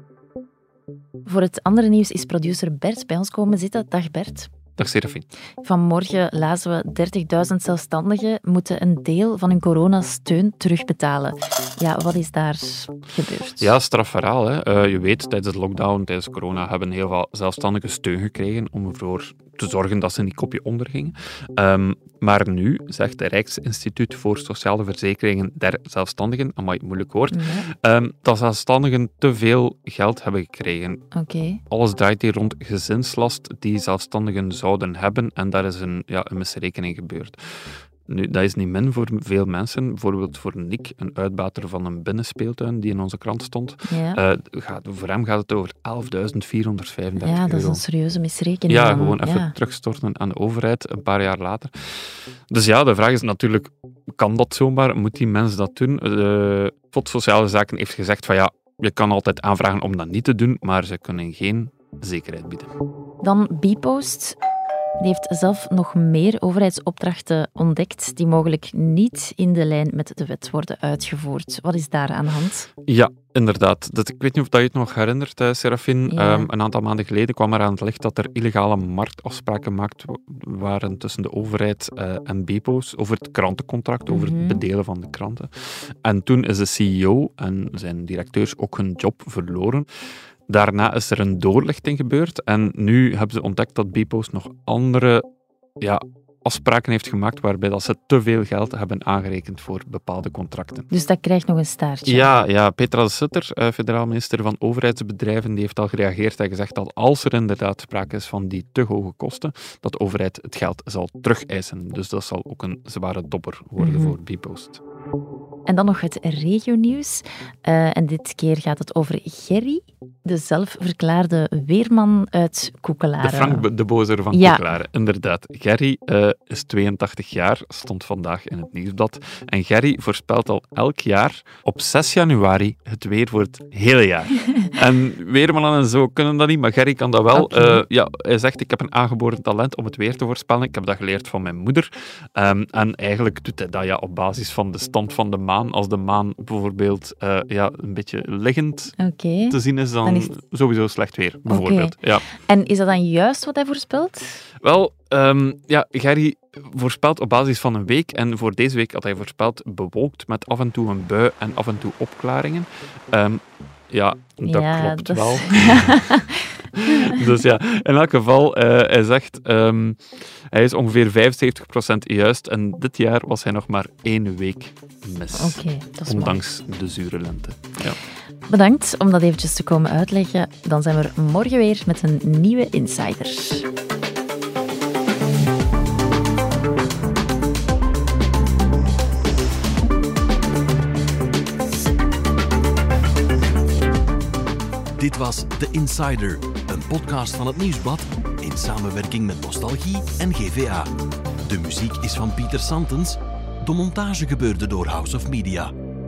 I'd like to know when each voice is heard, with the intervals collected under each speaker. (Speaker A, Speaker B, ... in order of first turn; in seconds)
Speaker A: 1.2-4.5, 5.6-13.7, 27.3-27.6, 31.1-31.6, 43.9-44.2, 47.2-49.5, 63.2-64.4, 65.0-72.7, 76.1-76.5, 84.1-84.6, 100.9-102.3, 113.8-114.2, 115.7-123.7, 124.3-124.6, 137.3-137.8, 149.0-150.3, 151.5-154.4, 164.4-167.3, 175.3-176.4, 178.5-183.7
Speaker B: 4.8-5.3, 13.6-31.0, 31.7-47.8, 48.7-62.7, 72.9-89.9, 90.5-95.2, 95.8-100.9, 102.1-114.8, 123.2-149.0, 149.5-152.3, 154.6-166.0, 166.8-178.0
Speaker C: 195.0-200.9, 201.4-205.7